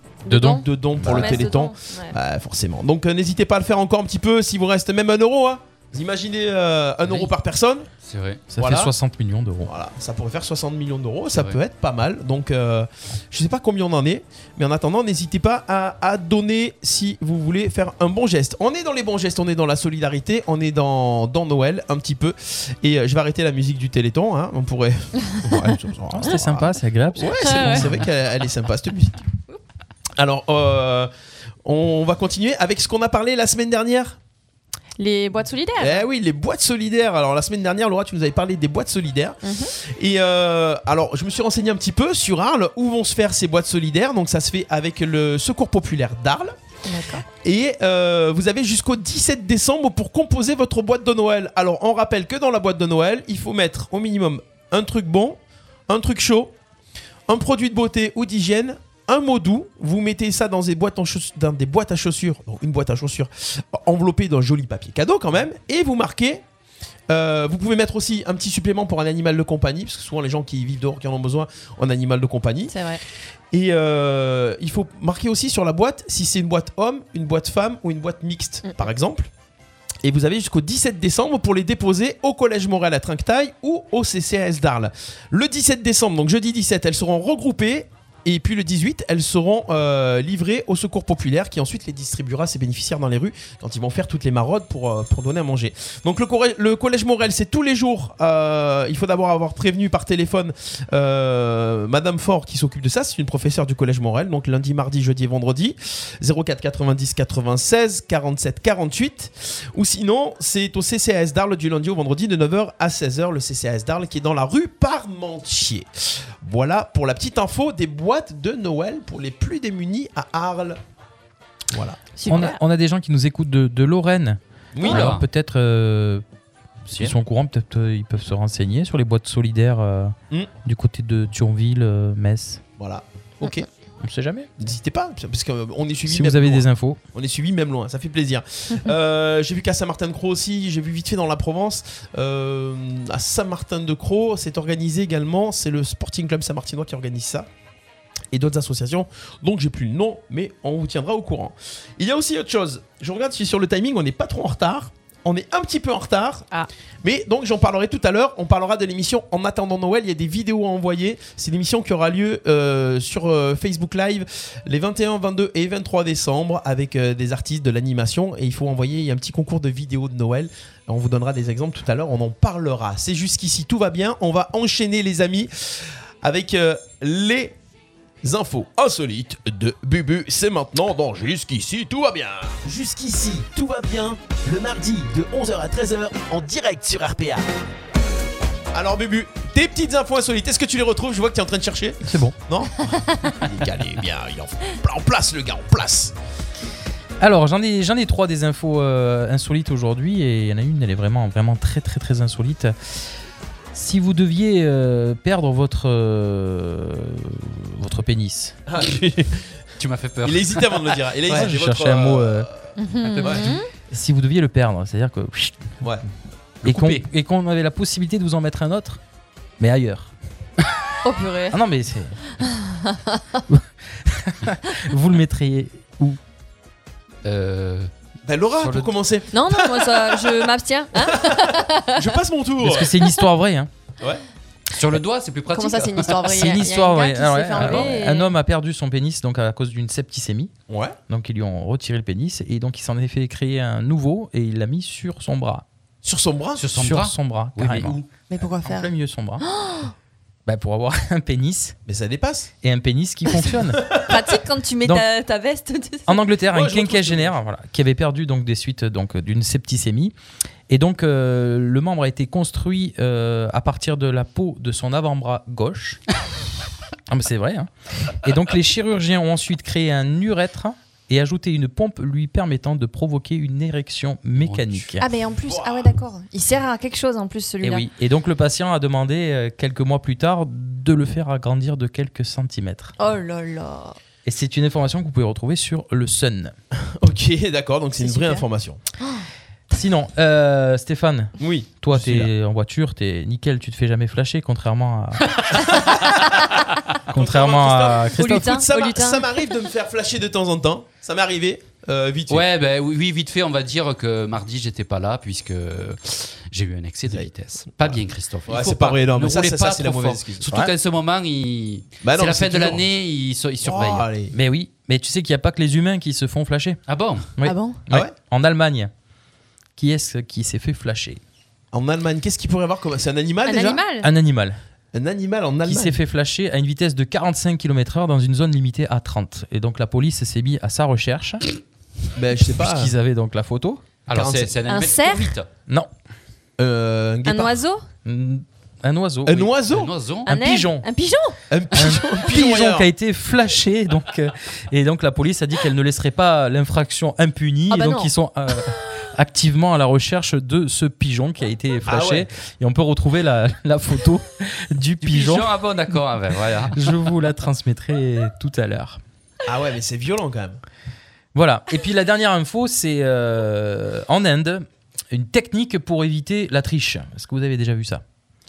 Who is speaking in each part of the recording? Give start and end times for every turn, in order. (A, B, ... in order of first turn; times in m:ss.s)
0:00.2-0:02.2 A
0:00.3-0:01.5 B
0:00.4-0:07.8 C
0:07.0-0:07.3 D
0:08.0-0:08.4 D
0:08.5-0:09.7 B
0:08.6-0:08.9 C
0:09.6-0:29.2 C
0:26.1-0:28.0 B
0:27.4-0:27.9 A
0:30.2-0:31.1 C
0:31.6-0:34.2 C
0:35.0-0:36.0 A
0:35.8-0:46.5 C
0:39.4-0:39.7 A
0:46.8-0:47.2 A
0:47.4-0:56.5 C
0:57.3-1:06.4 C
1:07.1-1:12.7 C
1:12.7-1:13.0 A
1:13.5-1:19.3 C
1:20.0-1:55.9 C
1:56.4-2:00.8 C
2:01.7-2:02.0 C
2:02.2-2:02.6 A
2:02.2-2:06.2 B
2:04.7-2:05.1 C
2:04.8-2:05.2 D
2:06.8-2:12.6 B
2:12.8-2:13.6 C
2:14.0-2:14.5 B
2:14.6-2:27.5 C
2:16.1-2:17.0 B
2:28.3-2:36.5 C
2:37.0-2:55.5 C
2:56.2-2:57.6 C
2:58.2-3:02.6 C
3:02.6-3:07.4 E
3:08.7-3:16.1 C
3:12.0-3:12.3 B
3:17.2-3:23.0 B
3:23.7-3:28.6 B
3:28.7-3:29.4 C
3:29.8-3:31.3 D
3:30.2-3:32.7 C
3:31.3-3:32.5 B
3:32.8-3:33.7 A
3:33.0-3:33.4 D
3:33.2-3:33.5 C
3:33.9-3:35.8 B
3:36.6-3:39.0 B
3:36.6-3:37.0 D
3:39.6-3:40.1 B
3:41.0-3:41.6 A
3:41.5-3:42.2 B
3:42.4-3:43.2 A
3:43.5-3:46.2 B
3:47.2-3:47.9 D
3:48.2-3:50.3 C
3:48.6-3:48.9 D
3:49.3-3:52.0 A
3:51.0-3:52.9 C
3:52.6-3:53.7 B
3:54.7-3:56.3 D
3:55.5-3:58.3 A
3:56.2-4:00.5 B
3:57.6-3:57.9 D
4:00.7-4:01.0 C
4:01.1-4:05.6 B
4:06.0-4:06.6 C
4:06.6-4:08.1 D
4:06.7-4:08.0 B
4:08.3-4:08.9 A
4:08.6-4:09.4 B
4:09.4-4:09.9 A
4:10.4-4:11.8 B
4:11.8-4:12.5 C
4:12.6-4:13.8 B
4:14.0-4:16.2 A
4:16.1-4:20.1 B
4:16.5-4:17.3 C
4:20.7-4:26.0 B
4:27.1-4:27.7 B
4:28.2-4:35.1 B
4:34.4-4:34.9 D
4:35.0-4:37.8 A
4:35.5-4:35.9 C
4:37.6-4:42.9 B
4:43.0-4:44.0 A
4:44.2-4:46.5 B
4:47.0-4:48.8 C
4:48.0-4:48.4 A
4:49.0-4:49.2 A
4:49.7-4:55.3 B
4:51.4-4:52.3 C
4:55.7-4:56.2 C
4:57.1-4:58.6 B
4:57.1-5:02.4 C
4:58.2-4:59.4 A
5:02.3-5:14.1 D
5:08.5-5:10.5 C
5:12.0-5:12.8 C
5:13.6-5:14.3 C
5:14.3-5:16.8 B
5:16.9-5:17.3 D
5:17.4-5:18.9 B
5:17.4-5:17.8 A
5:19.8-5:21.2 B
5:21.7-5:23.8 C
5:23.4-5:24.1 A
5:24.0-5:24.6 B
5:24.9-5:26.0 C
5:25.6-5:31.4 B
5:32.2-5:32.9 C
5:32.6-5:33.8 B
5:34.1-5:35.5 D
5:34.1-5:34.5 C
5:34.7-5:35.3 A
5:36.6-5:37.6 C
5:37.2-5:37.8 A
5:38.0-5:39.5 B
5:39.2-5:39.9 C
5:39.7-5:40.3 D
5:40.2-5:40.9 B
5:40.2-5:41.4 A
5:41.5-5:42.9 C
5:41.7-5:55.5 B
5:47.7-5:48.1 A
5:51.9-5:52.3 C
5:55.0-5:56.9 D
5:56.7-5:59.0 B
5:59.4-6:00.6 C
6:01.3-6:08.0 B